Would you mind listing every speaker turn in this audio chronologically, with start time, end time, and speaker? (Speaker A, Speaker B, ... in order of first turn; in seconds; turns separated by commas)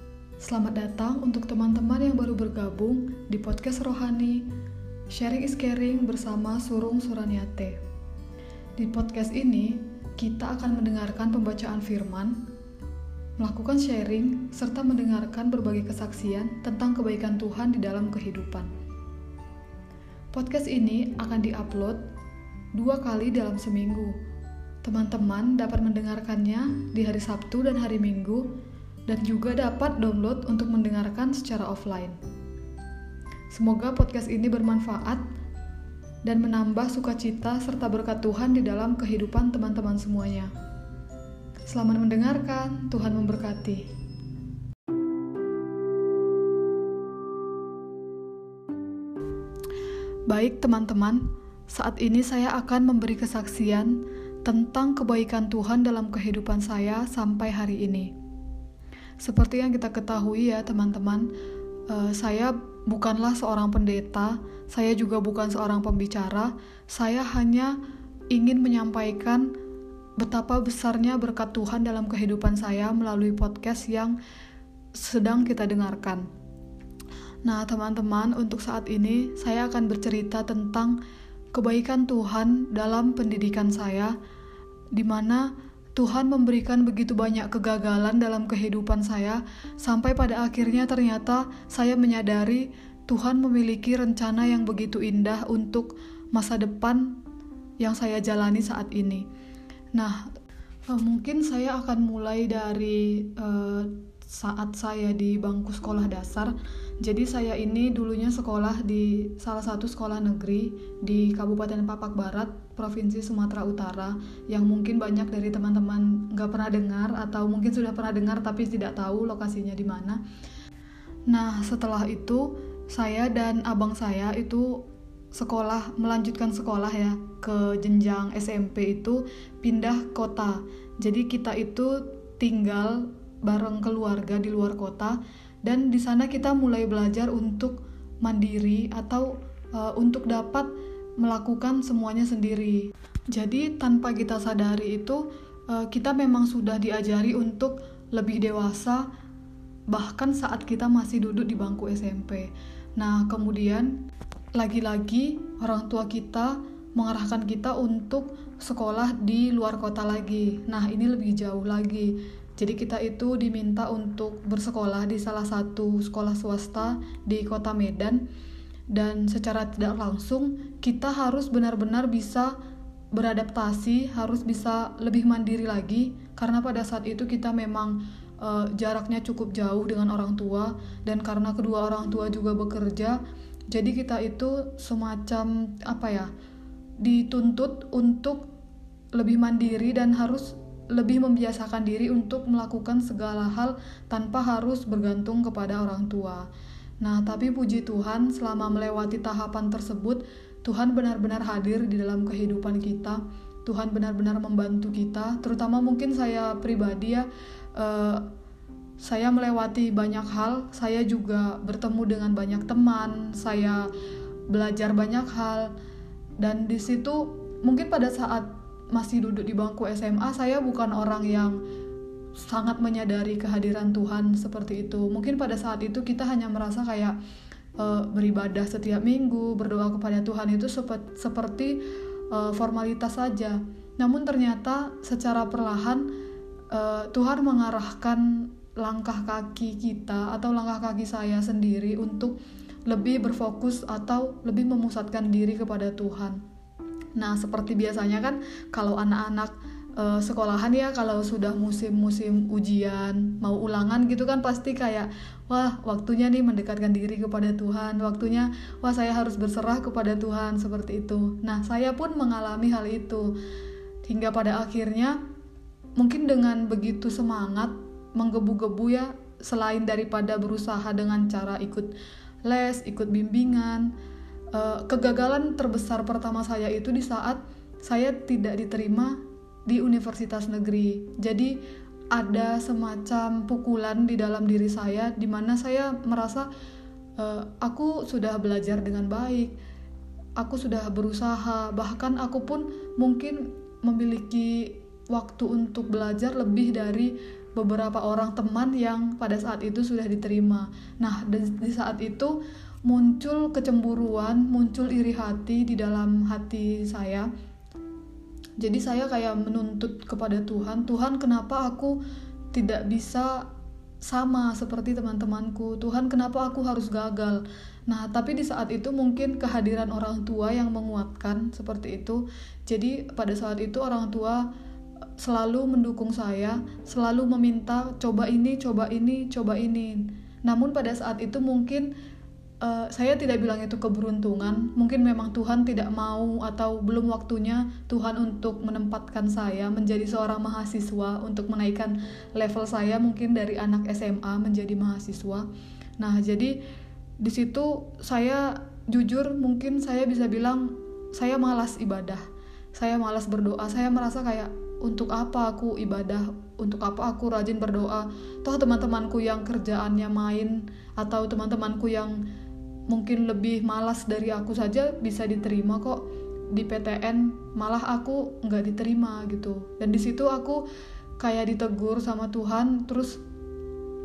Speaker A: 0.4-4.5, Speaker A: 5.1-7.8, Speaker A: 8.8-12.4, Speaker A: 13.4-18.7, Speaker A: 20.3-22.0, Speaker A: 22.8-24.1, Speaker A: 24.8-28.5, Speaker A: 29.1-32.2, Speaker A: 33.5-35.2, Speaker A: 36.2-40.5, Speaker A: 41.7-43.9, Speaker A: 50.3-58.1, Speaker A: 59.2-61.3, Speaker A: 61.9-67.8, Speaker A: 68.3-69.5, Speaker A: 70.2-74.2, Speaker A: 75.0-76.2, Speaker A: 77.4-81.0, Speaker A: 81.5-84.1, Speaker A: 84.9-97.2, Speaker A: 97.8-99.2, Speaker A: 100.0-100.2, Speaker A: 100.9-120.2, Speaker A: 121.3-124.8, Speaker A: 125.3-140.7, Speaker A: 141.2-149.1, Speaker A: 149.9-154.0, Speaker A: 154.6-168.2, Speaker A: 168.9-172.5, Speaker A: 173.1-183.2, Speaker A: 183.7-186.3, Speaker A: 187.0-188.5, Speaker A: 189.2-196.5, Speaker A: 197.0-208.3, Speaker A: 209.0-213.9, Speaker A: 214.5-215.7, Speaker A: 216.4-221.6, Speaker A: 222.4-227.1, Speaker A: 227.8-236.1, Speaker A: 236.7-242.3, Speaker A: 242.9-246.4, Speaker A: 247.2-263.3, Speaker A: 264.0-265.2, Speaker A: 266.0-271.9, Speaker A: 272.4-273.9, Speaker A: 274.5-281.5, Speaker A: 282.1-286.5, Speaker A: 287.2-289.5, Speaker A: 290.4-302.3, Speaker A: 302.9-307.3, Speaker A: 308.6-311.9, Speaker A: 312.5-313.4, Speaker A: 314.1-324.4, Speaker A: 325.2-331.9, Speaker A: 332.6-345.4, Speaker A: 346.0-346.5, Speaker A: 347.2-352.2, Speaker A: 352.8-362.2, Speaker A: 362.9-366.0, Speaker A: 366.5-370.6, Speaker A: 371.2-373.2